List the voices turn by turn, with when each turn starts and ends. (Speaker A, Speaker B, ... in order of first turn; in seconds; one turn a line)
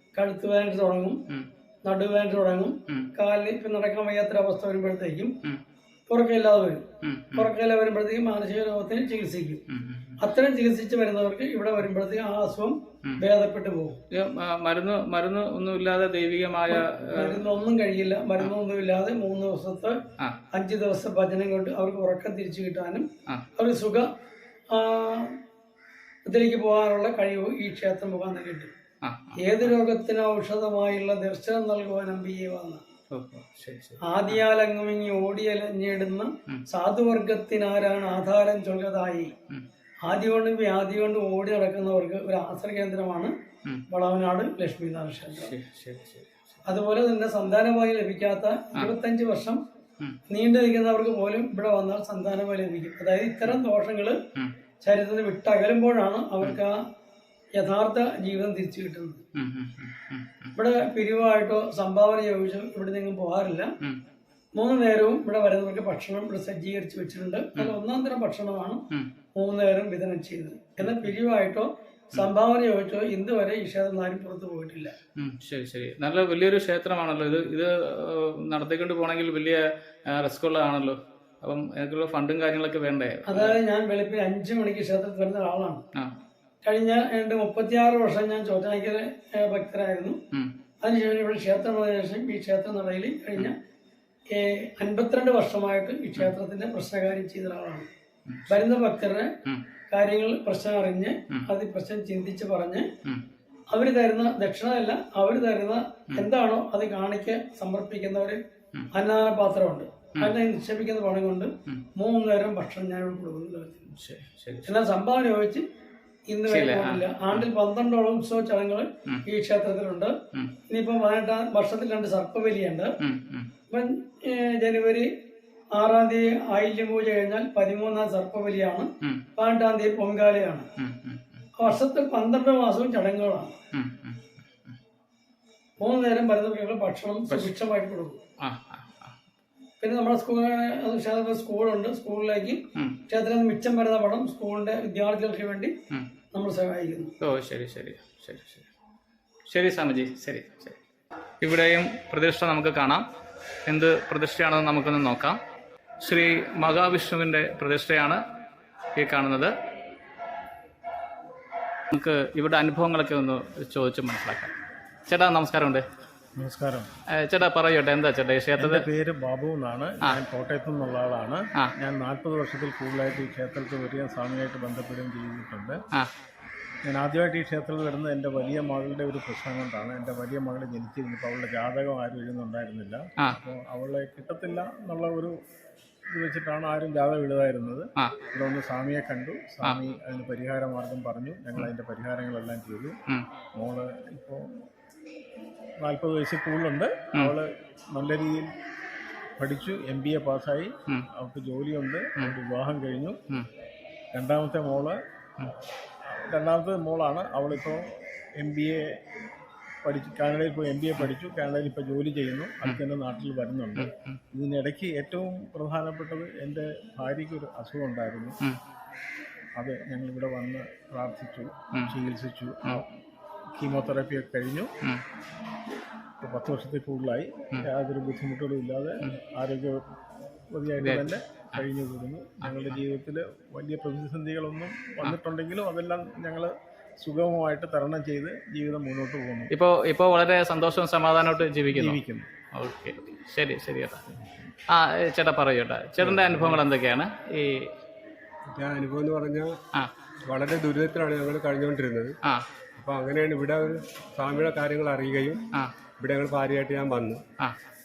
Speaker A: 0.1-1.2
Speaker A: 1.9-5.3
Speaker A: 6.1-9.6
Speaker B: 7.0-7.5
Speaker B: 9.7-10.2
Speaker A: 10.2-14.0
Speaker B: 14.1-17.4
Speaker A: 16.7-20.0
Speaker A: 20.6-24.1
Speaker A: 24.7-25.4
Speaker A: 26.3-28.7
Speaker B: 29.0-29.7
Speaker A: 29.4-32.8
Speaker B: 33.1-34.4
Speaker A: 34.1-39.3
Speaker A: 40.1-43.3
Speaker A: 43.9-45.5
Speaker B: 45.3-46.6
Speaker A: 46.7-49.6
Speaker A: 50.3-54.2
Speaker A: 54.8-56.8
Speaker A: 57.6-59.2
Speaker B: 59.4-60.5
Speaker A: 60.6-63.7
Speaker A: 64.6-68.8
Speaker A: 69.4-74.9
Speaker B: 70.8-71.1
Speaker B: 75.2-83.6
Speaker A: 83.3-85.8
Speaker A: 86.6-90.2
Speaker A: 90.8-93.6
Speaker A: 94.3-97.9
Speaker B: 98.3-98.6
Speaker A: 98.5-99.3
Speaker A: 99.9-102.9
Speaker A: 103.7-108.4
Speaker A: 108.9-113.8
Speaker B: 113.9-114.8
Speaker A: 114.7-115.6
Speaker A: 116.3-120.1
Speaker B: 116.5-117.5
Speaker A: 120.7-122.9
Speaker B: 123.0-123.5
Speaker A: 123.7-125.1
Speaker A: 125.8-130.7
Speaker B: 130.8-131.4
Speaker A: 131.6-133.6
Speaker B: 133.7-134.7
Speaker A: 135.8-138.2
Speaker B: 138.4-139.2
Speaker A: 139.8-145.7
Speaker A: 146.3-147.1
Speaker B: 147.2-148.7
Speaker B: 149.5-150.8
Speaker B: 151.4-153.0
Speaker B: 153.7-155.4
Speaker B: 156.0-158.2
Speaker B: 159.0-159.5
Speaker B: 161.9-164.5
Speaker B: 165.1-165.8
Speaker C: 166.4-166.9
Speaker B: 167.1-168.9
Speaker C: 168.6-175.8
Speaker C: 176.9-185.3
Speaker C: 186.1-193.0
Speaker C: 193.6-194.6
Speaker C: 195.8-198.5
Speaker C: 199.4-203.2
Speaker C: 204.1-205.0
Speaker C: 206.1-209.0
Speaker C: 209.8-218.4
Speaker B: 213.8-214.2
Speaker C: 219.6-222.9
Speaker C: 223.6-224.7
Speaker C: 226.2-229.8
Speaker C: 230.5-239.5
Speaker B: 230.8-231.6
Speaker B: 232.4-232.8
Speaker B: 239.5-242.0
Speaker C: 241.7-242.3
Speaker B: 242.5-244.0
Speaker B: 244.7-247.7
Speaker D: 246.0-246.6
Speaker D: 248.5-249.5
Speaker D: 250.2-252.1
Speaker D: 252.8-255.4
Speaker D: 256.0-257.2